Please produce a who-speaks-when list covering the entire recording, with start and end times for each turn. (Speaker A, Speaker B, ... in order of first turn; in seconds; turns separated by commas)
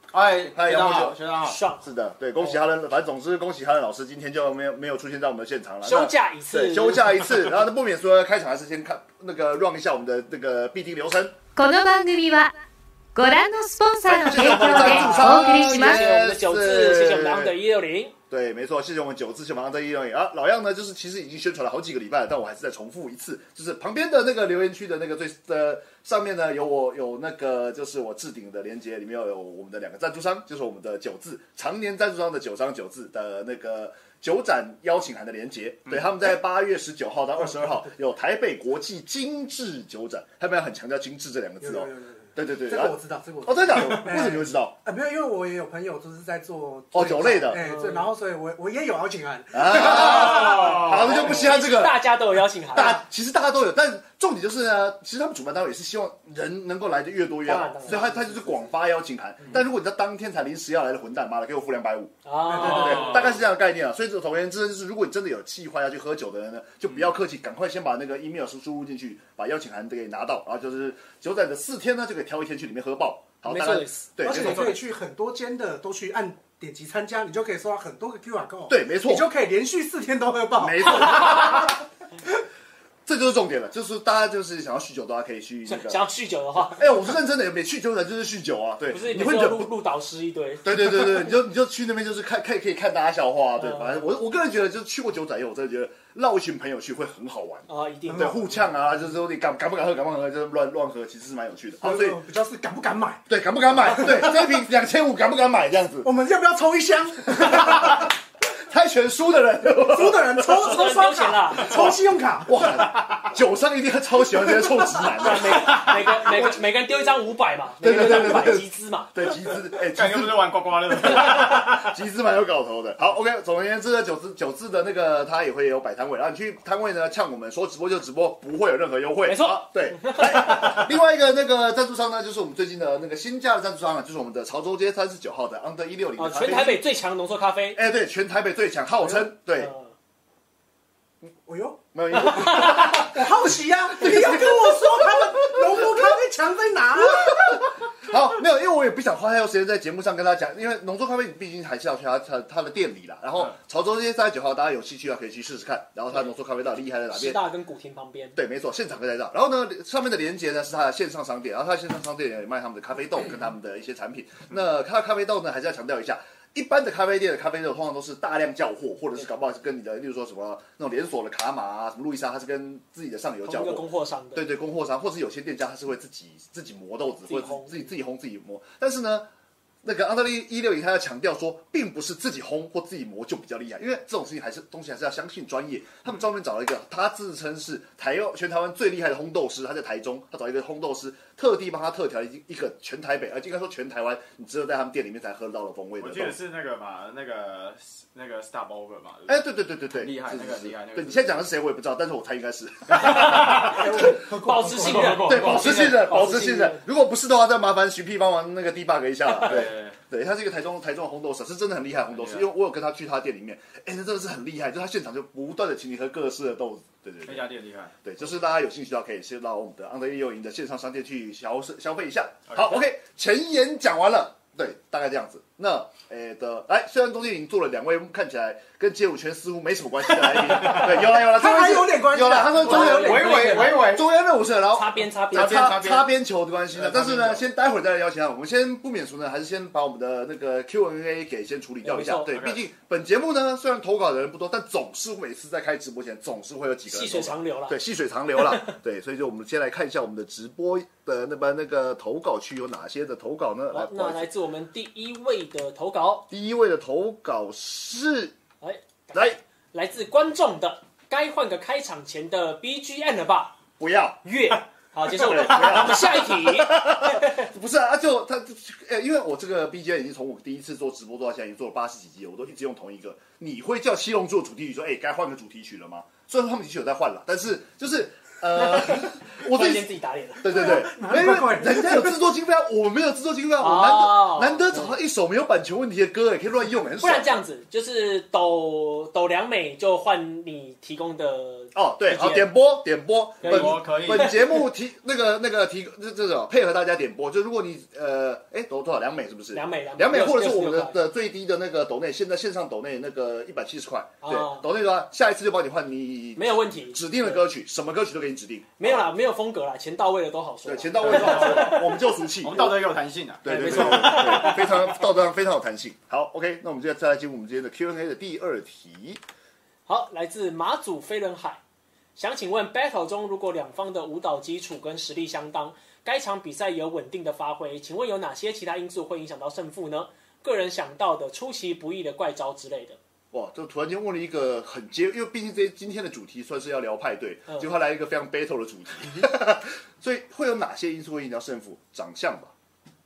Speaker A: 0.1-1.6, Speaker B: 0.5-1.2, Speaker C: 1.4-1.8, Speaker B: 1.8-11.3, Speaker C: 5.8-7.2, Speaker D: 11.5-12.5, Speaker D: 13.1-16.0, Speaker B: 14.1-17.5, Speaker C: 14.4-18.1, Speaker B: 18.3-44.7, Speaker E: 37.6-37.8, Speaker E: 41.6-50.9, Speaker B: 46.9-47.6, Speaker C: 47.6-48.1, Speaker B: 49.5-52.0, Speaker A: 49.8-51.4, Speaker C: 50.1-53.0, Speaker B: 52.7-74.8, Speaker C: 57.4-58.1, Speaker E: 58.0-58.5, Speaker C: 62.2-63.2, Speaker E: 62.5-63.2, Speaker A: 62.5-63.4, Speaker C: 73.4-74.1, Speaker E: 74.2-81.8, Speaker B: 78.7-79.3, Speaker B: 80.5-81.8, Speaker B: 83.0-86.0, Speaker C: 85.7-87.0, Speaker B: 86.7-89.7, Speaker C: 88.9-91.3, Speaker B: 90.6-102.2, Speaker C: 93.6-94.0, Speaker C: 97.7-98.5, Speaker E: 98.1-98.4, Speaker E: 101.8-103.2, Speaker B: 103.3-106.1, Speaker E: 106.0-108.1, Speaker B: 107.3-110.9, Speaker E: 109.8-112.7, Speaker C: 110.5-111.9, Speaker B: 111.7-116.6, Speaker C: 115.2-119.1, Speaker B: 117.8-136.8, Speaker A: 119.7-121.9, Speaker C: 129.2-130.8, Speaker C: 136.2-137.8, Speaker B: 137.7-139.7, Speaker C: 139.6-139.9, Speaker E: 141.4-147.7, Speaker B: 141.9-146.1, Speaker C: 142.2-143.0, Speaker B: 146.9-157.4, Speaker C: 157.1-158.4, Speaker B: 158.3-179.3, Speaker C: 173.4-174.4, Speaker C: 177.2-177.9, Speaker B: 179.8-196.4, Speaker A: 196.0-201.5, Speaker B: 199.3-204.1, Speaker A: 202.9-204.0, Speaker C: 203.0-206.8, Speaker E: 203.6-205.3, Speaker A: 204.6-206.2, Speaker B: 205.2-217.4, Speaker A: 209.3-210.0, Speaker A: 212.1-212.5, Speaker A: 217.2-217.9, Speaker B: 218.0-254.3, Speaker A: 222.5-222.8, Speaker A: 230.2-231.1, Speaker E: 230.8-233.7, Speaker A: 232.6-234.1, Speaker C: 233.0-233.9, Speaker C: 234.7-235.8, Speaker A: 235.3-236.1, Speaker A: 236.7-237.4, Speaker C: 241.8-242.3, Speaker A: 242.3-242.6, Speaker C: 246.9-247.8, Speaker C: 248.4-248.7, Speaker C: 253.7-256.3, Speaker B: 256.3-258.3, Speaker C: 258.6-263.6, Speaker B: 263.8-264.2, Speaker C: 264.2-267.5, Speaker B: 265.1-287.4, Speaker A: 265.3-265.8, Speaker C: 278.5-281.0, Speaker E: 280.5-282.1, Speaker C: 283.6-284.9, Speaker C: 287.0-292.5, Speaker B: 291.7-309.0, Speaker A: 293.4-294.4, Speaker C: 293.4-294.6, Speaker C: 299.5-300.9, Speaker C: 304.2-304.6, Speaker C: 306.4-307.4, Speaker C: 308.8-312.0, Speaker B: 310.6-312.8, Speaker A: 311.0-311.8, Speaker A: 312.4-314.9, Speaker B: 313.4-319.2, Speaker C: 313.4-314.7, Speaker C: 319.9-321.6, Speaker C: 322.1-333.0, Speaker B: 333.3-342.5